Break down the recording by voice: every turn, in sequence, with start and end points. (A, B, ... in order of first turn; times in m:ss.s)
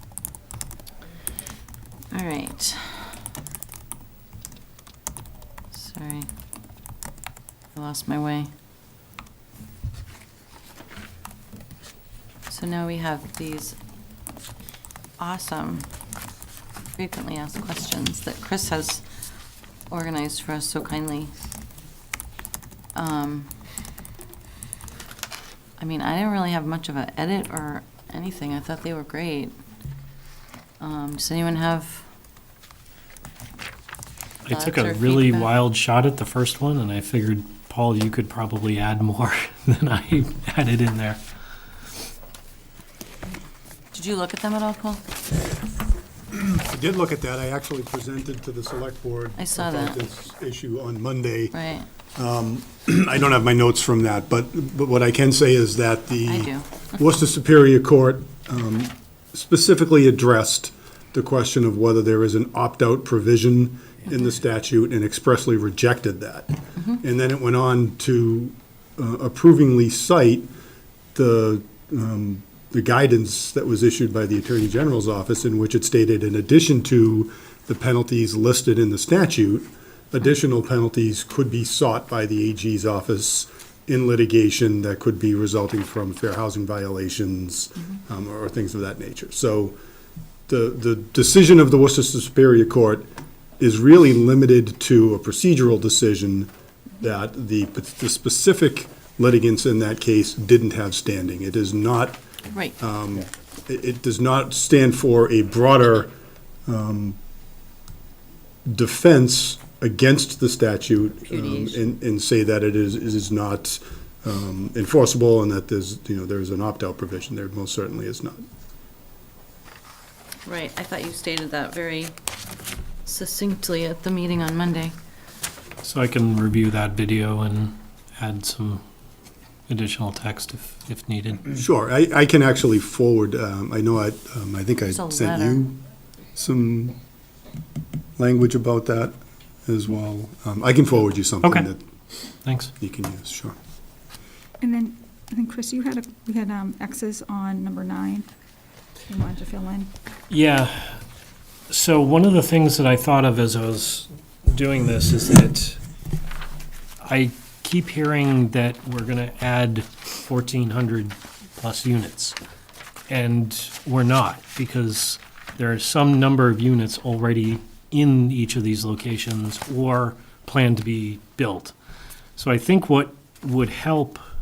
0:02.1-0:03.2 A
0:05.7-0:06.3 A
0:07.7-0:08.5 A
0:12.5-0:13.8 A
0:15.2-0:15.9 A
0:17.0-0:19.0 A
0:19.9-0:21.3 A
0:23.0-0:23.5 A
0:25.8-0:29.6 A
0:30.8-0:32.1 A
0:34.5-0:41.2 B
0:34.5-0:35.6 A
0:43.9-0:45.0 A
0:46.3-0:51.6 C
0:49.4-0:50.0 A
0:51.5-0:51.9 A
0:52.2-1:10.5 C
0:56.2-0:56.7 A
1:11.2-1:29.8 C
1:30.5-1:42.2 C
1:42.5-1:42.8 A
1:42.8-1:46.1 C
1:46.7-1:47.2 C
1:48.7-1:58.4 C
1:51.3-1:51.8 A
2:00.4-2:02.1 A
2:03.0-2:05.0 A
2:05.8-2:08.8 B
2:09.7-2:11.4 B
2:11.5-2:15.8 C
2:14.8-2:15.7 A
2:16.4-2:17.0 C
2:18.2-2:19.2 C
2:19.7-2:21.8 C
2:21.4-2:21.7 B
2:22.4-2:22.7 B
2:22.8-2:23.6 C
2:24.6-2:28.3 D
2:29.1-2:29.9 D
2:30.3-2:31.0 B
2:31.7-2:35.8 B
2:37.0-2:42.4 B
2:43.1-2:51.7 B
2:52.4-2:54.2 B